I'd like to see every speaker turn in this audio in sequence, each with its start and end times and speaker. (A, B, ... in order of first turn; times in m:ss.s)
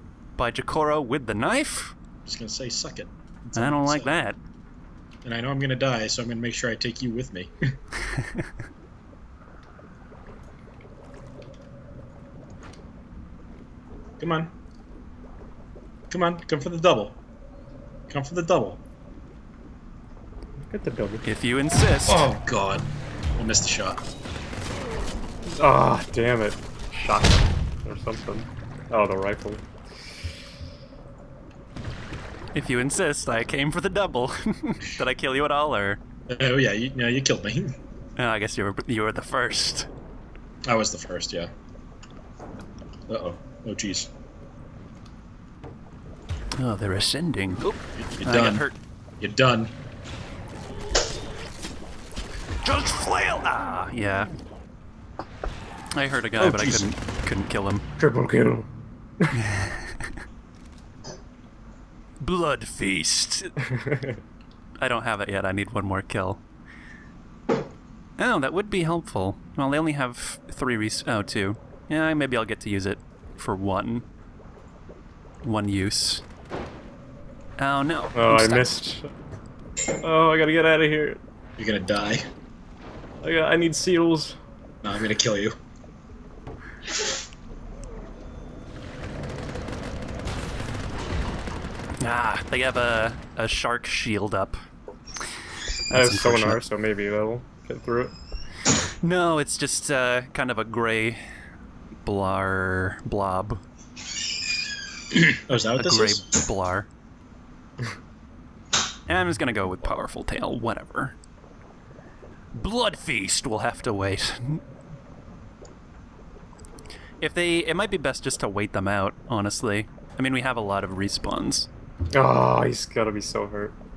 0:00.4-0:02.0 A
0:02.2-0:04.2 B
0:03.6-0:04.4 A
0:05.2-0:07.5 B
0:14.2-0:14.5 B
0:16.1-0:17.2 B
0:18.1-0:18.8 B
0:20.6-0:21.3 C
0:21.2-0:22.3 A
0:22.1-0:24.0 B
0:25.6-0:29.6 C
0:32.5-0:36.0 A
0:36.3-0:37.8 B
0:38.2-0:39.9 A
0:40.7-0:41.5 B
0:43.1-0:44.1 B
0:46.6-0:48.8 A
0:48.0-0:48.6 B
0:49.2-0:49.7 B
0:52.6-0:54.3 A
0:55.9-0:57.8 A
0:56.4-0:56.9 B
0:58.0-0:58.7 C
0:59.4-1:00.1 A
1:02.2-1:03.5 A
1:03.7-1:04.2 C
1:04.8-1:06.4 A
1:08.2-1:14.1 A
1:15.4-1:16.2 A
1:17.6-1:18.7 A
1:18.2-1:19.1 C
1:20.0-1:21.2 C
1:21.6-1:22.2 B
1:23.2-1:24.4 C
1:24.8-1:25.6 B
1:32.0-1:34.6 A
1:35.9-1:36.6 A
1:35.9-1:38.1 C
1:39.0-1:41.2 A
1:42.0-1:43.6 A
1:45.1-1:46.2 B
1:45.8-1:46.9 A
1:49.1-1:51.2 A
1:52.5-1:54.6 A
1:57.2-2:01.7 A
2:02.1-2:03.8 C